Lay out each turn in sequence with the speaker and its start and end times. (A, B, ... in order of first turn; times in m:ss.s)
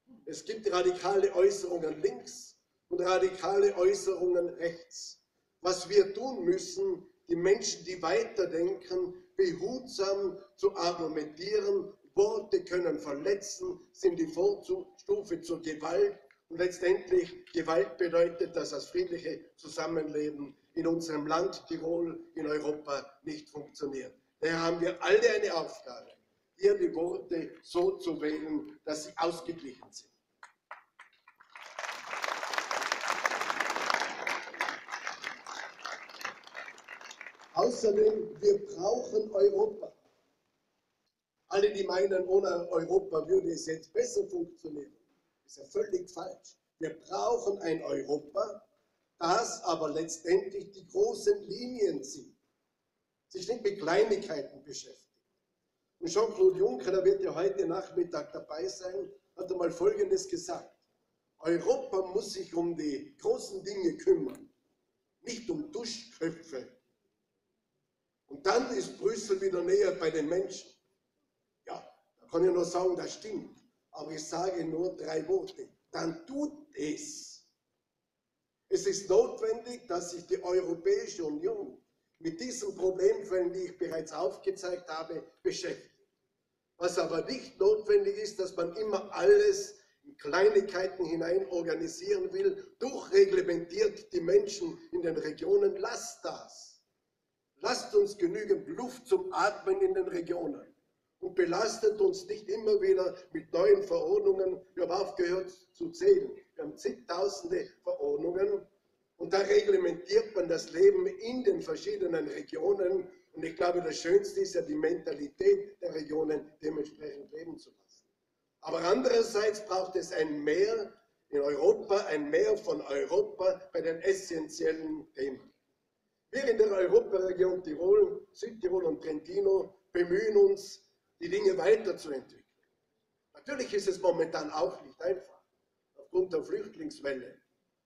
0:00.3-0:30.2 A
0:37.5-0:40.0 A
0:41.5-0:48.6 A
0:49.2-0:52.4 A
0:53.3-0:55.2 A
0:56.0-1:00.8 A
1:01.4-1:04.5 A
1:05.2-1:06.8 A
1:08.3-1:10.8 A
1:11.6-1:17.5 A
1:18.7-1:26.0 A
1:26.8-1:36.8 A
1:37.6-1:58.1 A
1:58.6-2:05.5 A
2:06.3-2:12.5 A
2:13.3-2:15.4 A
2:16.0-2:17.4 A